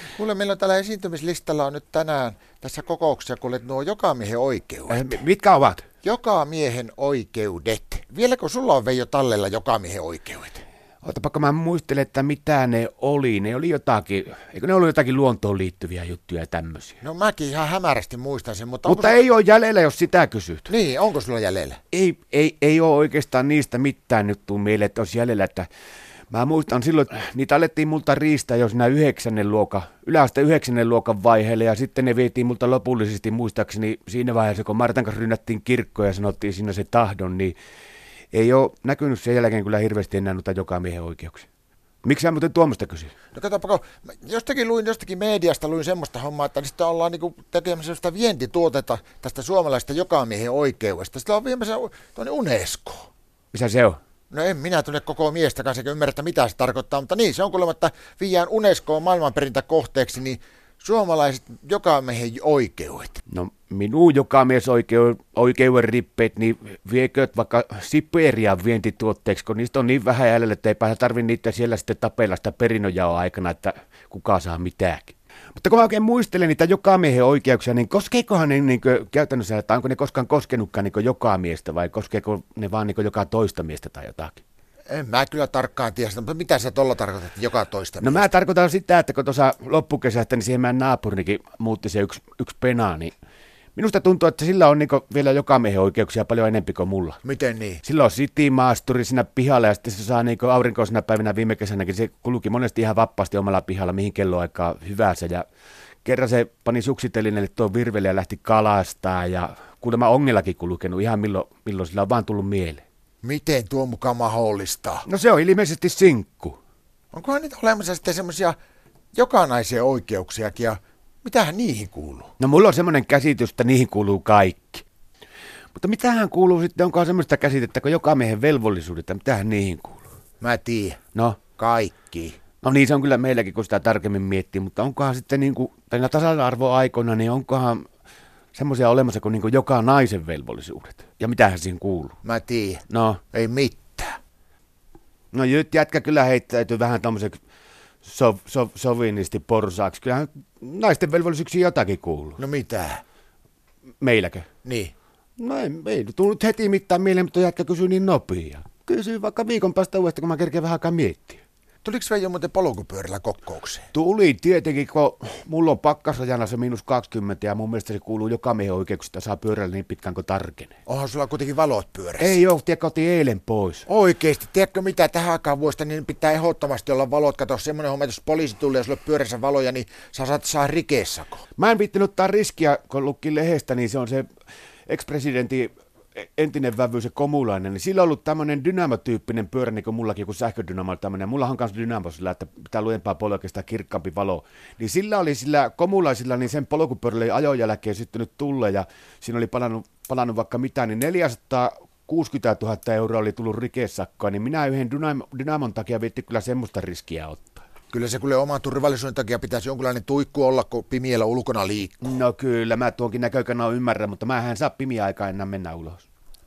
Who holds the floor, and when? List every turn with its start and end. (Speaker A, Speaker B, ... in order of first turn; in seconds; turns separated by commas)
Speaker A: 0.1-5.2, Speaker B: 4.9-5.8, Speaker A: 6.0-10.6, Speaker B: 11.0-17.0, Speaker A: 17.0-19.2, Speaker B: 18.8-20.7, Speaker A: 20.7-21.8, Speaker B: 21.9-25.7, Speaker B: 26.3-37.5, Speaker B: 38.3-41.5, Speaker B: 42.0-43.1, Speaker A: 43.3-53.1, Speaker B: 53.5-54.0, Speaker A: 54.3-63.2, Speaker B: 63.3-84.4, Speaker A: 84.9-88.3, Speaker B: 88.0-93.1, Speaker B: 93.8-97.2, Speaker A: 97.2-97.8, Speaker B: 97.8-105.4, Speaker B: 106.0-112.8, Speaker A: 113.2-115.0, Speaker B: 115.0-116.6, Speaker A: 117.1-118.5, Speaker A: 119.1-122.3, Speaker B: 122.4-124.8, Speaker B: 125.7-130.0, Speaker A: 130.4-131.0, Speaker B: 131.1-131.4, Speaker A: 131.6-132.4, Speaker B: 132.6-137.8, Speaker B: 138.5-142.2, Speaker A: 142.2-144.2, Speaker B: 142.9-143.2, Speaker B: 145.3-147.4, Speaker B: 148.0-152.4, Speaker A: 152.4-153.0, Speaker B: 154.0-154.5, Speaker A: 154.6-154.9, Speaker B: 155.4-161.4, Speaker A: 161.8-163.9, Speaker B: 163.9-170.7, Speaker A: 170.9-172.4, Speaker B: 172.2-173.8, Speaker A: 173.9-181.4, Speaker B: 181.6-184.3, Speaker B: 184.9-207.6, Speaker A: 207.9-212.0, Speaker B: 212.0-216.1